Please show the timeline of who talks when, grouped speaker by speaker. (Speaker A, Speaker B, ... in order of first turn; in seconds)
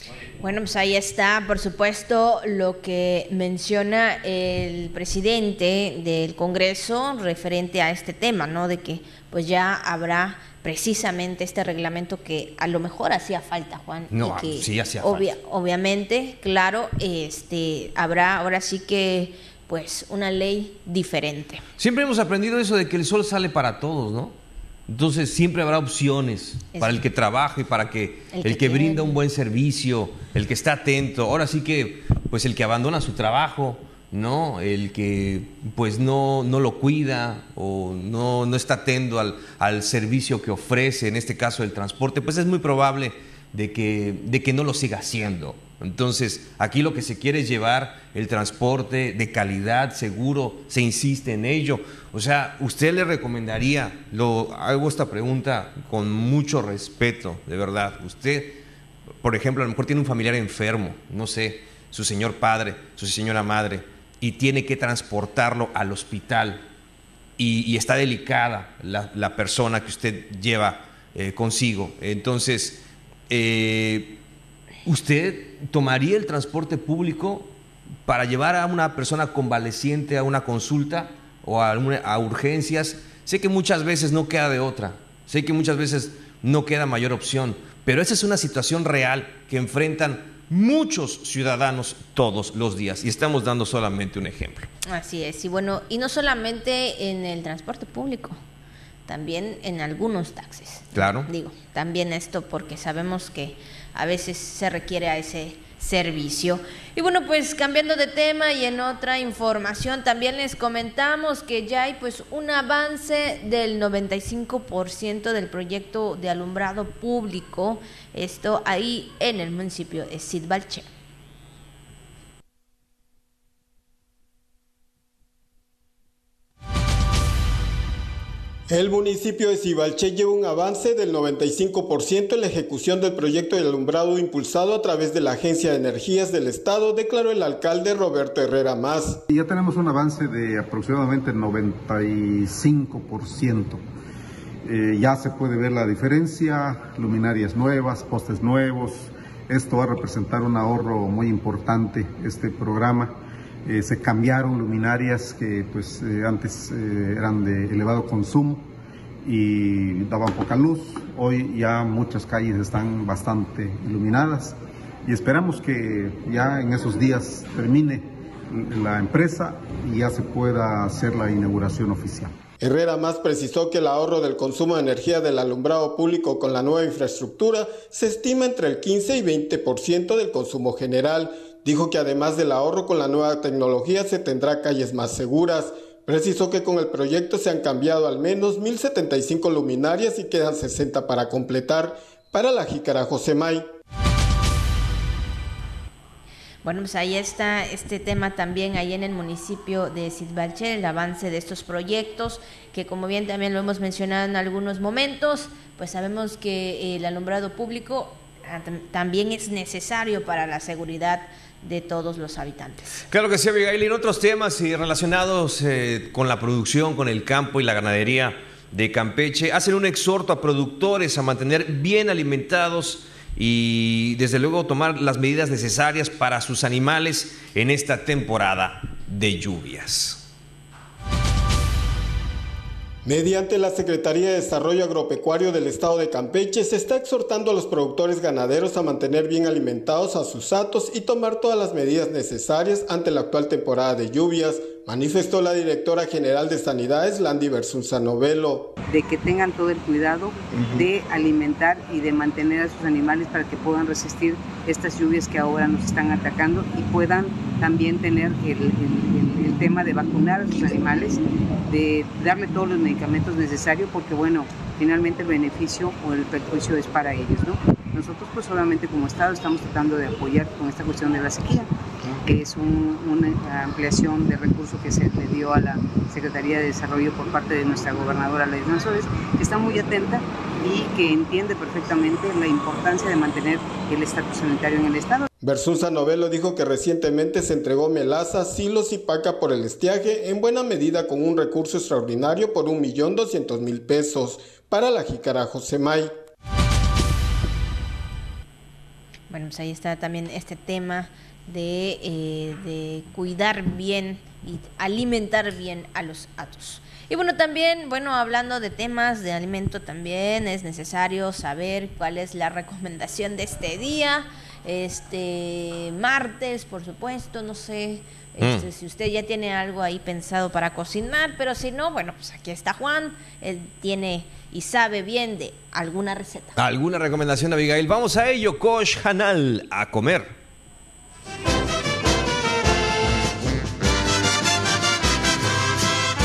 Speaker A: 0.4-21.6, 28.3-29.1, 94.8-98.4, 99.1-120.9, 196.6-213.0, 299.3-326.6
Speaker B: 14.1-15.3, 21.8-24.4, 24.9-58.6, 59.2-66.6, 67.4-74.2, 74.8-77.5, 78.0-94.7, 100.9-101.3, 213.1-230.2, 318.4-318.7, 326.6-330.3
Speaker C: 128.7-139.2, 172.6-193.6, 233.1-248.7, 285.4-296.1
Speaker D: 139.3-143.8, 144.6-153.1, 153.6-158.7, 159.2-172.3
Speaker E: 248.9-271.7, 272.2-285.3